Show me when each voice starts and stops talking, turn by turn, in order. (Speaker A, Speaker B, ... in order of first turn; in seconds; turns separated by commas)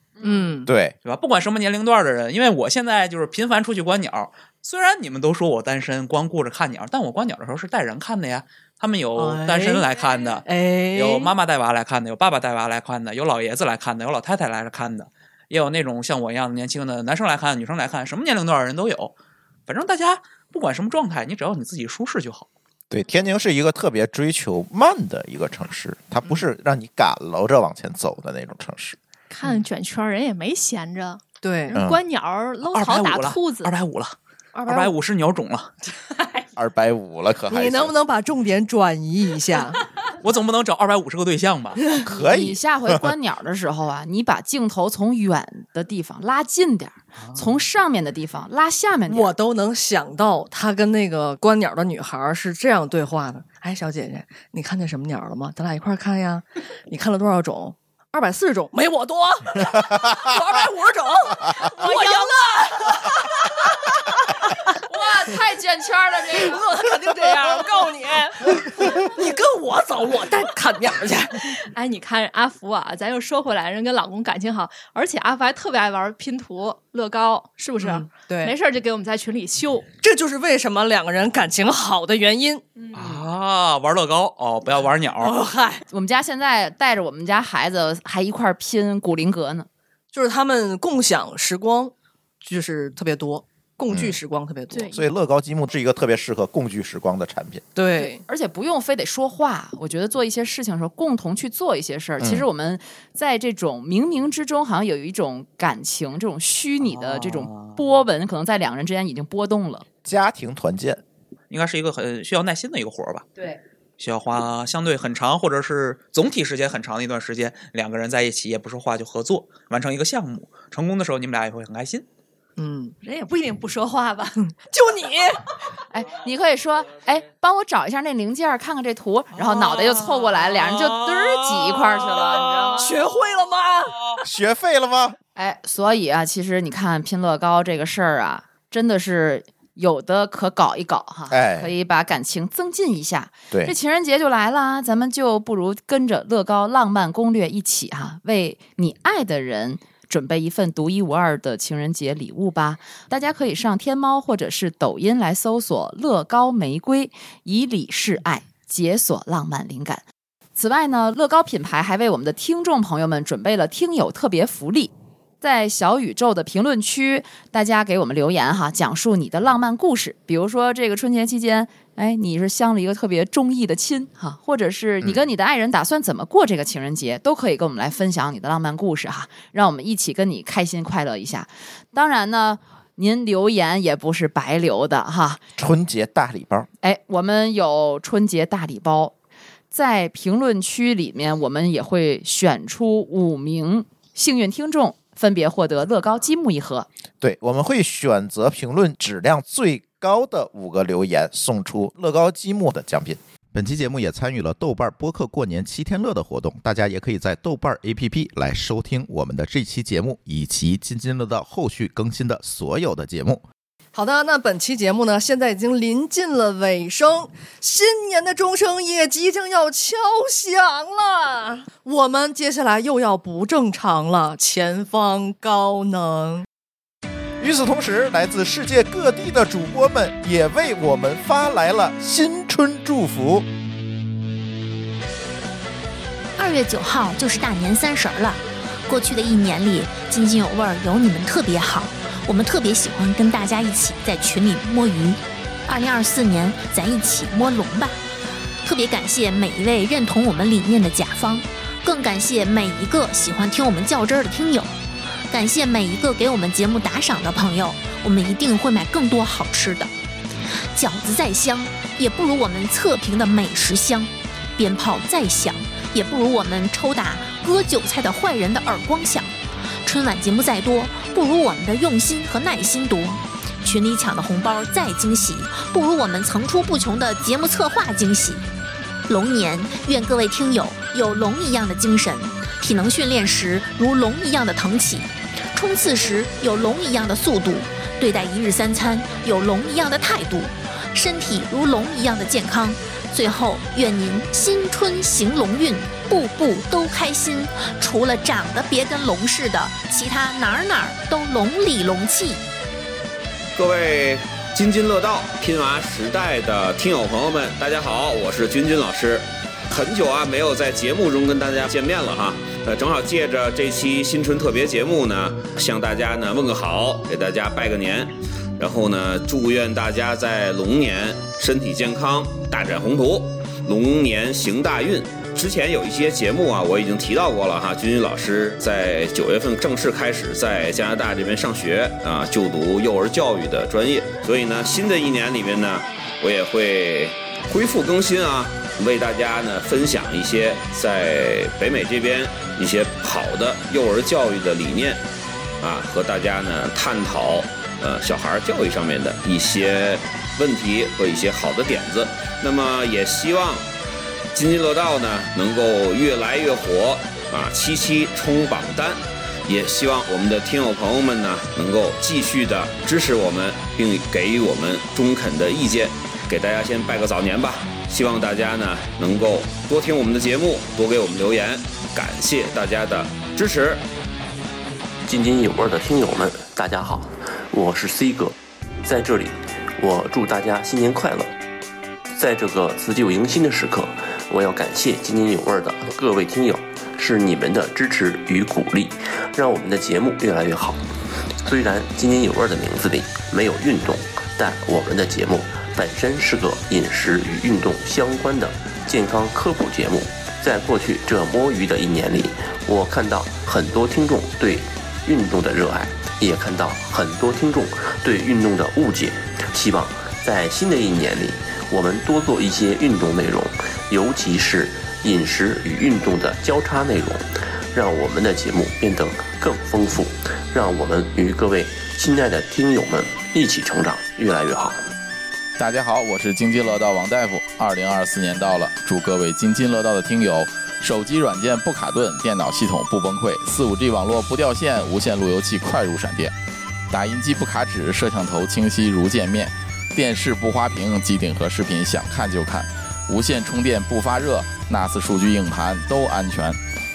Speaker A: 0.2-0.5, Speaker B: 0.2-0.7, Speaker C: 0.7-1.0, Speaker D: 1.0-19.1, Speaker B: 9.2-9.9, Speaker B: 10.4-11.3, Speaker D: 19.7-22.5, Speaker C: 22.9-29.0, Speaker E: 29.3-33.7, Speaker B: 31.4-31.8, Speaker C: 31.7-32.0, Speaker D: 32.6-35.8, Speaker B: 34.5-34.9, Speaker C: 36.6-37.9, Speaker B: 37.5-39.8, Speaker D: 40.2-41.8, Speaker C: 42.1-43.1, Speaker A: 42.1-49.3, Speaker D: 47.2-47.5, Speaker B: 49.1-63.4, Speaker A: 61.8-62.4, Speaker A: 64.8-66.9, Speaker B: 66.3-71.6, Speaker E: 71.7-79.9, Speaker B: 77.8-78.5, Speaker B: 80.0-82.6, Speaker E: 82.8-83.2, Speaker D: 82.9-85.4, Speaker B: 85.2-85.8, Speaker A: 85.9-89.7, Speaker B: 90.1-95.0, Speaker C: 93.9-94.2, Speaker E: 94.7-95.0, Speaker C: 94.9-97.6, Speaker B: 97.8-98.2, Speaker A: 98.0-109.9, Speaker C: 102.2-102.5, Speaker D: 106.8-107.8, Speaker C: 110.0-111.0, Speaker D: 111.5-113.3, Speaker D: 114.0-122.0, Speaker B: 122.6-123.0, Speaker E: 123.0-124.4, Speaker B: 124.7-125.4, Speaker A: 125.9-132.9, Speaker D: 129.4-132.8, Speaker B: 132.8-134.0, Speaker C: 134.2-135.2, Speaker A: 135.4-160.0, Speaker C: 141.3-141.7, Speaker A: 160.6-185.4, Speaker C: 185.6-186.7, Speaker A: 186.8-189.1, Speaker A: 189.7-196.9, Speaker C: 197.2-213.4, Speaker B: 213.9-226.4, Speaker C: 227.4-233.5, Speaker F: 236.4-248.0, Speaker F: 248.6-254.7, Speaker F: 255.3-259.9, Speaker F: 260.8-278.4, Speaker F: 279.1-302.4, Speaker G: 303.6-345.0, Speaker G: 345.6-353.7, Speaker G: 354.3-373.8, Speaker H: 375.1-381.3, Speaker H: 382.1-390.9, Speaker H: 391.4-424.9, Speaker I: 425.6-436.3, Speaker I: 436.9-446.6